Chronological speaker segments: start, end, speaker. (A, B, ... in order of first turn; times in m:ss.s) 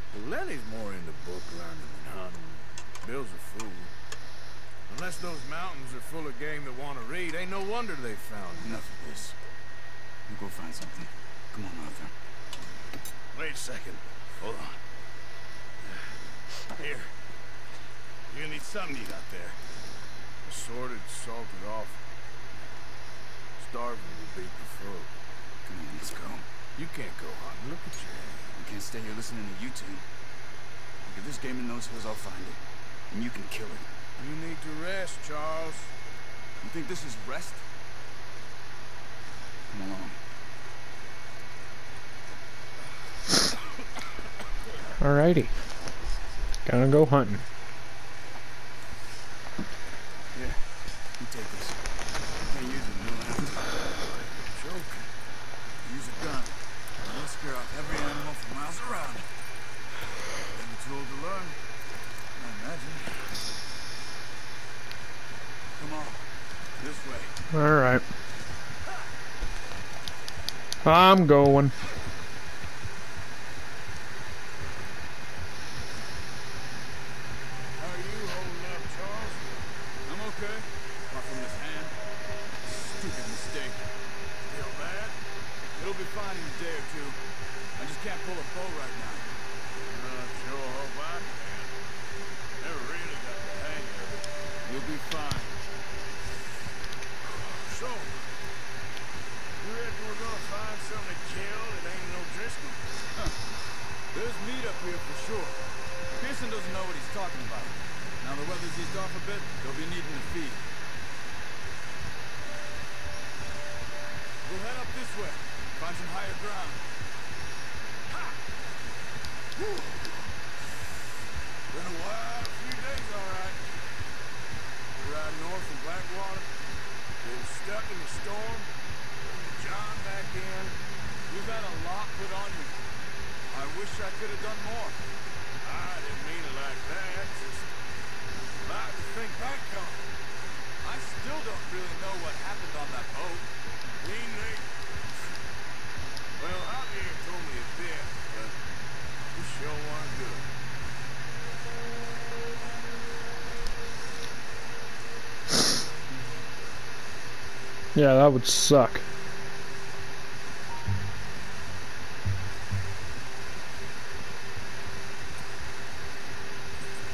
0:00.1-0:03.9 A
0:04.9-0:08.9 A
0:08.6-0:09.4 B
0:10.3-0:12.1 B
0:13.3-0:14.8 C
0:16.5-0:17.1 C
0:18.3-0:19.6 C
0:20.4-0:22.0 A
0:23.6-0:25.1 A
0:25.6-0:26.5 B
0:26.8-0:28.4 A
0:28.5-0:30.0 B
0:31.0-0:32.6 B
0:33.1-0:33.9 B
0:34.2-0:35.9 A
0:36.6-0:37.6 B
0:39.7-0:40.2 B
0:45.0-0:45.5 D
0:46.7-0:47.4 D
0:50.3-0:51.8 B
0:52.4-0:53.7 B
0:54.5-0:55.1 A
0:55.8-0:59.3 B
1:00.5-1:01.6 B
1:02.4-1:03.2 B
1:05.8-1:06.2 B
1:06.8-1:07.3 B
1:07.5-1:08.0 D
1:10.8-1:11.7 D
1:17.8-1:19.6 A
1:20.1-1:22.0 B
1:22.6-1:23.8 B
1:24.5-1:25.2 A
1:25.8-1:27.2 B
1:27.8-1:29.3 B
1:29.8-1:31.7 A
1:32.6-1:34.3 A
1:34.6-1:35.6 B
1:37.2-1:38.3 A
1:39.6-1:42.8 A
1:44.1-1:45.6 B
1:46.2-1:50.6 B
1:54.4-1:56.8 B
1:58.1-1:58.4 A
1:59.6-2:00.3 A
2:01.7-2:03.6 A
2:04.9-2:06.5 A
2:07.2-2:08.7 A
2:09.2-2:10.8 A
2:11.3-2:12.8 B
2:13.5-2:15.0 B
2:15.6-2:17.7 A
2:18.6-2:20.1 A
2:20.8-2:23.5 B
2:24.0-2:25.4 A
2:26.4-2:28.6 A
2:29.3-2:30.5 A
2:37.9-2:39.0 D